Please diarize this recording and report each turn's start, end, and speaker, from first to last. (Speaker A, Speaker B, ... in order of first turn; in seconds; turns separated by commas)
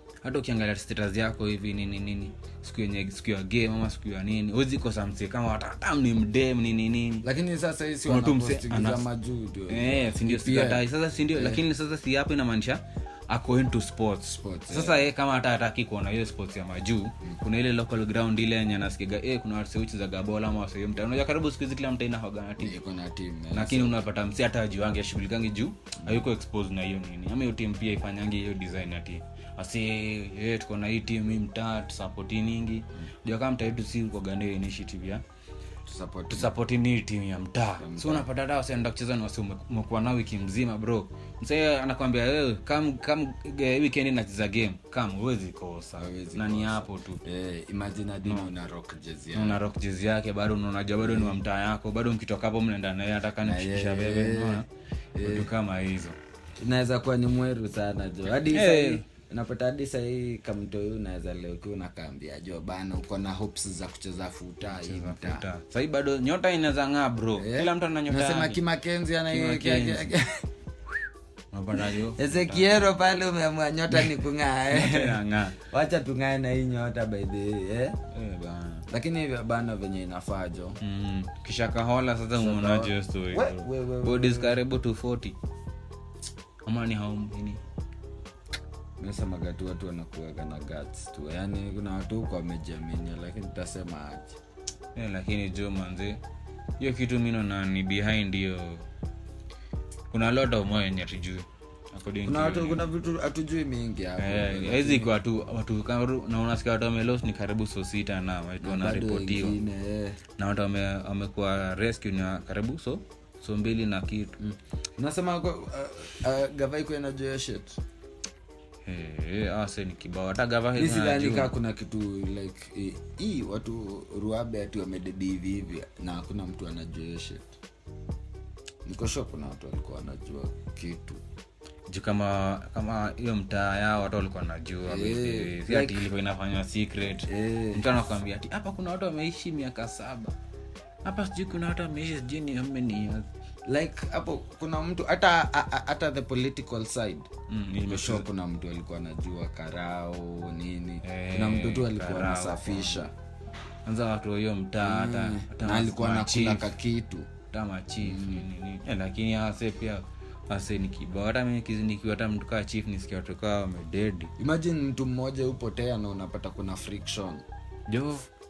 Speaker A: 0.2-7.2, Speaker B: 7.2-11.6, Speaker A: 8.1-9.1, Speaker A: 9.7-22.8, Speaker B: 14.4-15.0, Speaker B: 22.6-24.0, Speaker A: 23.5-35.2, Speaker B: 35.9-36.5, Speaker A: 36.3-47.2, Speaker B: 37.8-38.3, Speaker B: 46.0-49.6, Speaker A: 48.2-48.5, Speaker A: 49.3-54.6, Speaker B: 51.0-51.3, Speaker B: 53.4-55.5, Speaker A: 55.2-56.2, Speaker B: 56.6-65.4, Speaker A: 58.4-59.0, Speaker A: 64.6-68.6, Speaker B: 67.4-70.4, Speaker A: 69.3-70.1, Speaker A: 71.5-72.9, Speaker B: 72.1-78.0, Speaker A: 73.9-75.6, Speaker A: 78.1-78.9, Speaker B: 78.9-80.8, Speaker A: 80.8-85.3, Speaker B: 82.3-84.6, Speaker A: 86.6-87.6, Speaker B: 89.0-94.4, Speaker A: 94.9-96.2, Speaker A: 96.8-98.8, Speaker A: 100.1-102.9, Speaker B: 102.2-105.1, Speaker A: 104.2-109.6, Speaker B: 108.6-110.2, Speaker A: 110.4-114.3, Speaker B: 114.4-117.8, Speaker A: 118.8-121.5, Speaker B: 120.8-127.5, Speaker B: 128.8-131.2, Speaker A: 131.9-140.3, Speaker B: 134.9-136.1, Speaker B: 137.3-137.8, Speaker A: 141.0-143.3, Speaker B: 143.7-147.3, Speaker A: 147.5-148.2, Speaker B: 147.8-153.1, Speaker A: 151.0-153.1, Speaker A: 153.8-156.7, Speaker B: 154.8-157.3, Speaker A: 157.5-164.3, Speaker B: 158.0-158.4, Speaker B: 164.4-167.4, Speaker A: 167.9-168.3